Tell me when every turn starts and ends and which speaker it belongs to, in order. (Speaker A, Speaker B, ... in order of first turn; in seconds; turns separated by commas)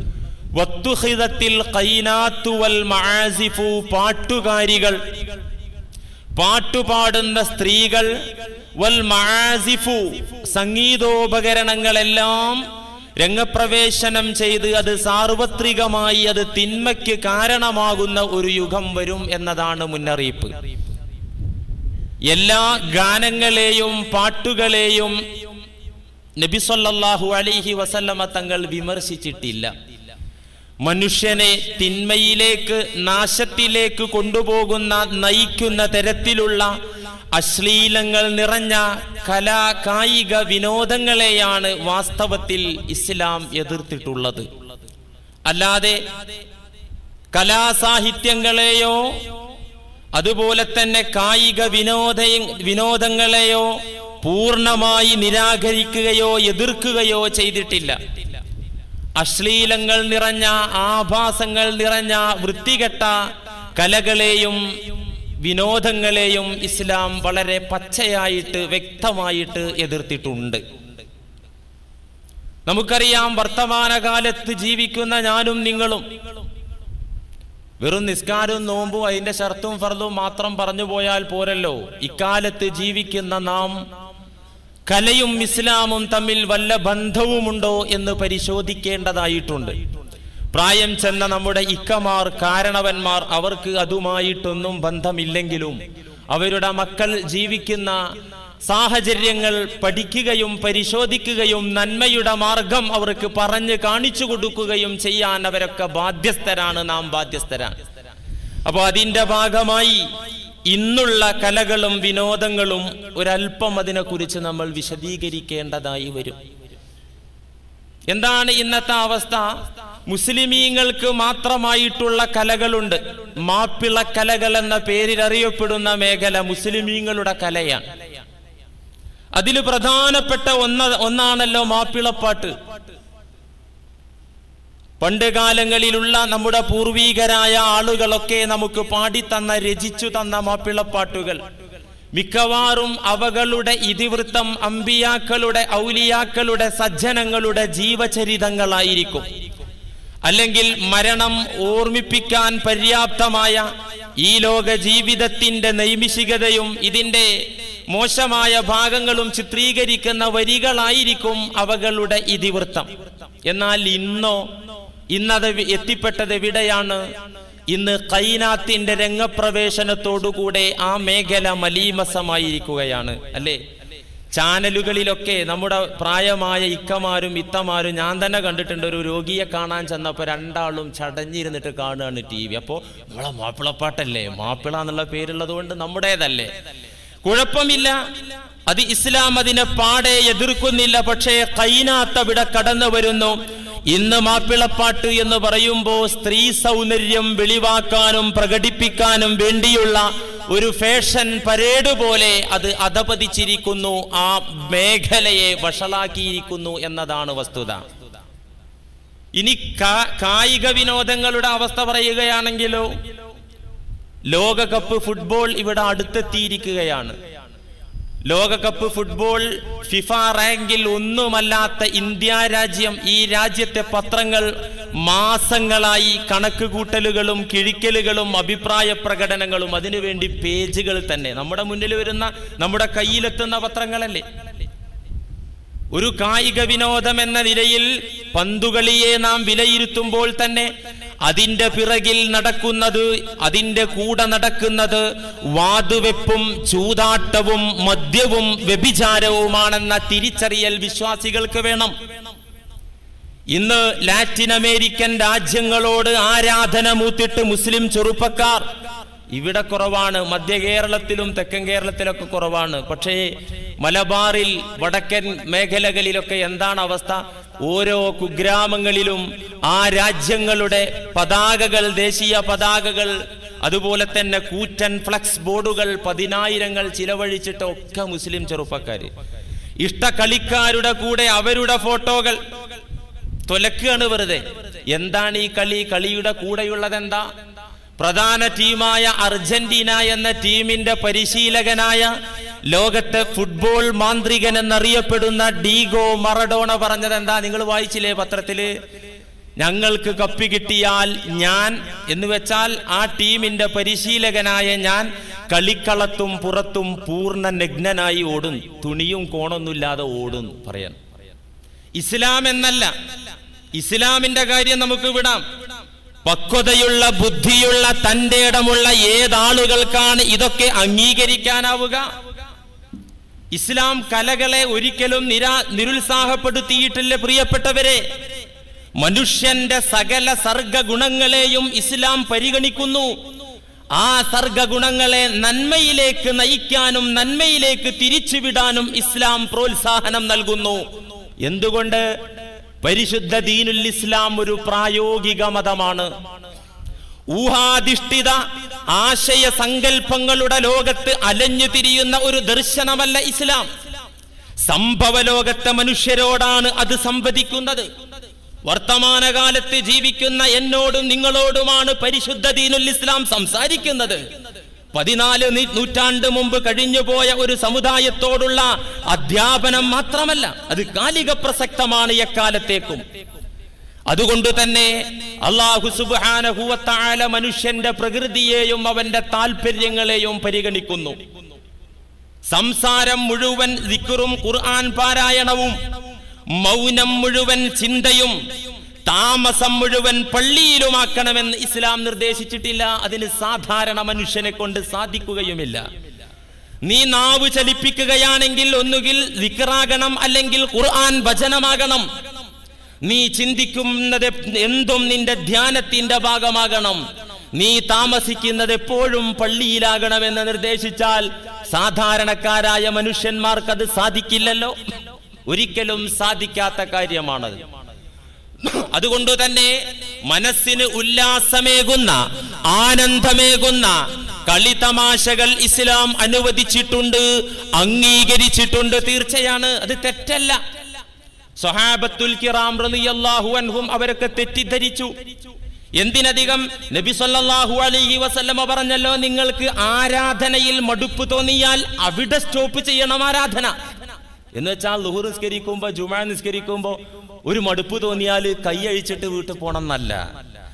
Speaker A: 0.6-5.2, Speaker A: 6.3-8.2, Speaker A: 8.8-12.6, Speaker A: 13.2-20.5, Speaker A: 22.3-25.2, Speaker A: 26.4-29.7, Speaker A: 30.8-36.7, Speaker A: 37.3-44.5, Speaker A: 45.5-46.0, Speaker A: 47.3-49.1, Speaker A: 50.1-58.0, Speaker A: 59.2-63.2, Speaker A: 63.8-64.6, Speaker A: 65.4-70.6, Speaker A: 72.7-76.0, Speaker A: 77.8-83.8, Speaker A: 84.9-89.8, Speaker A: 90.5-95.8, Speaker A: 96.3-98.0, Speaker A: 98.7-107.8, Speaker A: 108.6-110.1, Speaker A: 110.7-116.4, Speaker A: 118.1-119.5, Speaker A: 120.1-127.8, Speaker A: 129.3-132.6, Speaker A: 135.0-141.4, Speaker A: 142.1-149.3, Speaker A: 150.2-157.3, Speaker A: 157.9-162.9, Speaker A: 163.4-164.5, Speaker A: 165.1-167.0, Speaker A: 167.7-173.6, Speaker A: 174.3-186.5, Speaker A: 187.2-188.0, Speaker A: 188.7-193.4, Speaker A: 193.9-207.8, Speaker A: 209.3-212.9, Speaker A: 214.3-217.2, Speaker A: 218.3-234.2, Speaker A: 235.9-240.7, Speaker A: 241.2-251.9, Speaker A: 253.5-258.7, Speaker A: 259.3-279.1, Speaker A: 279.8-282.4, Speaker A: 283.5-287.2, Speaker A: 288.0-292.1, Speaker A: 292.7-298.7, Speaker A: 299.6-311.0, Speaker A: 312.0-312.9, Speaker A: 313.8-315.4, Speaker A: 316.2-322.0, Speaker A: 323.5-328.0, Speaker A: 329.0-333.1, Speaker A: 333.9-340.8, Speaker A: 341.4-342.1, Speaker A: 342.8-346.1, Speaker A: 347.3-348.4, Speaker A: 348.9-353.7, Speaker A: 354.6-357.9, Speaker A: 358.6-364.2, Speaker A: 364.9-373.0, Speaker A: 374.1-381.2, Speaker A: 382.5-385.8, Speaker A: 386.6-388.4, Speaker A: 389.1-395.8, Speaker A: 396.8-402.1, Speaker A: 403.0-407.0, Speaker A: 407.5-414.8, Speaker A: 415.5-417.6, Speaker A: 418.6-419.7, Speaker A: 420.2-430.6, Speaker A: 431.6-435.1, Speaker A: 436.0-443.7, Speaker A: 444.5-450.2